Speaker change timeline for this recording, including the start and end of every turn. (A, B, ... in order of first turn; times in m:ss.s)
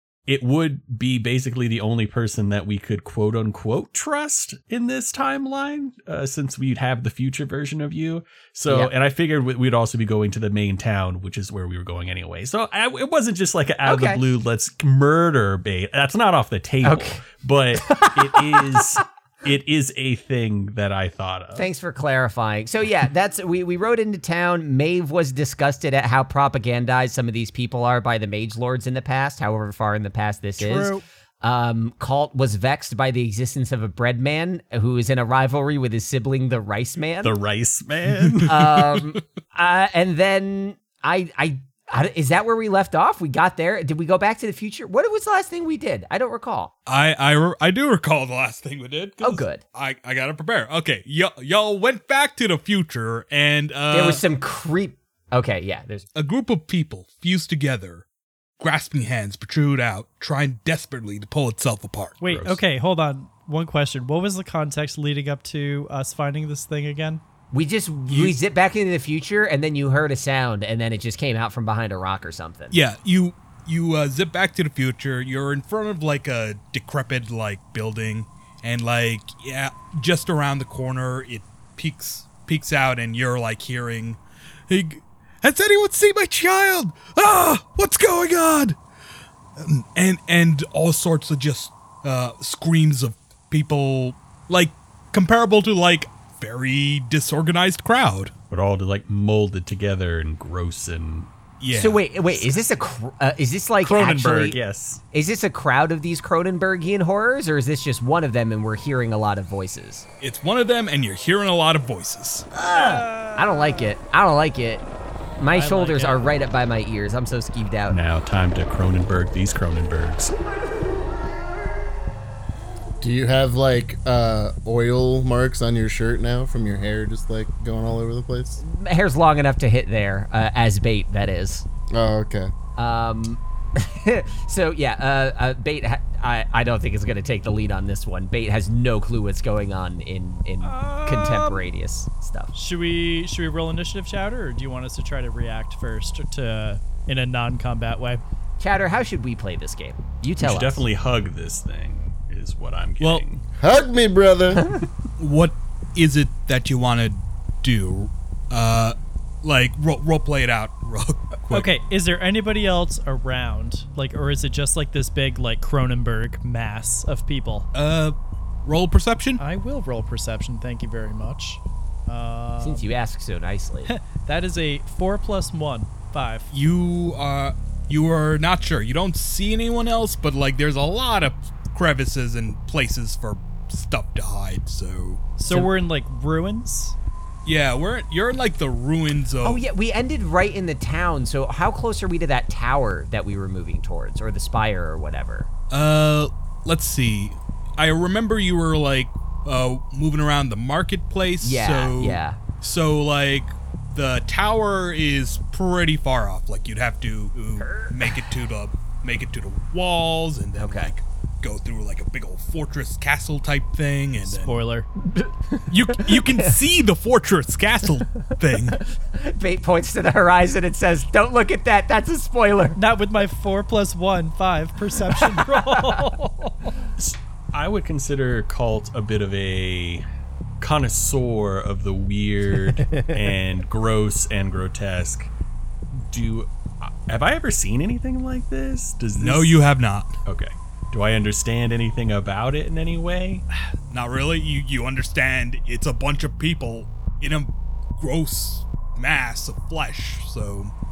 0:00.3-0:21.7 A
0:13.8-0:14.2 B
0:16.8-0:19.0 B
0:21.5-0:37.4 B
0:30.6-0:31.0 C
0:37.2-0:38.9 A
0:38.4-0:46.7 B
0:46.9-0:54.2 D
0:49.2-0:49.6 B
0:53.9-0:56.0 B
0:56.1-0:58.0 D
0:58.6-1:02.2 D
1:02.2-1:07.2 C
1:02.2-1:02.6 A
1:07.5-1:12.7 B
1:08.1-1:08.4 D
1:12.7-1:28.8 D
1:29.6-1:38.3 D
1:38.5-1:41.3 A
1:41.6-1:42.5 D
1:41.7-1:44.6 B
1:43.8-1:45.0 A
1:45.1-1:50.0 B
1:50.2-1:52.5 D
1:52.5-1:54.8 B
1:52.7-1:53.8 C
1:55.4-1:58.0 B
1:55.5-1:56.3 C
1:57.9-2:00.3 A
2:03.0-2:08.6 E
2:08.6-2:11.6 B
2:11.9-2:12.5 E
2:12.8-2:22.5 B
2:20.6-2:21.7 C
2:22.5-2:28.2 C
2:28.6-2:30.9 B
2:30.4-2:33.4 A
2:33.6-2:34.6 E
2:34.6-2:34.8 B
2:35.2-2:41.7 D
2:41.5-2:47.6 C
2:47.7-2:49.4 D
2:49.4-2:52.8 C
2:52.6-2:53.9 B
2:53.8-2:56.5 C
2:56.5-3:05.3 D
3:05.4-3:07.0 C
3:07.4-3:09.6 D
3:09.4-3:15.5 B
3:15.7-3:34.6 D
3:21.4-3:22.4 B
3:27.6-3:28.2 B
3:30.6-3:30.9 B
3:34.2-3:34.9 C
3:35.1-3:36.5 B
3:35.7-3:38.8 D
3:38.7-3:42.8 B
3:42.8-3:46.7 C
3:45.2-3:45.8 B
3:47.0-3:50.0 A
3:50.6-3:55.3 A
3:52.8-3:53.2 B
3:55.9-3:59.6 A
3:59.2-4:00.1 D
4:00.2-4:03.4 A
4:03.9-4:10.7 D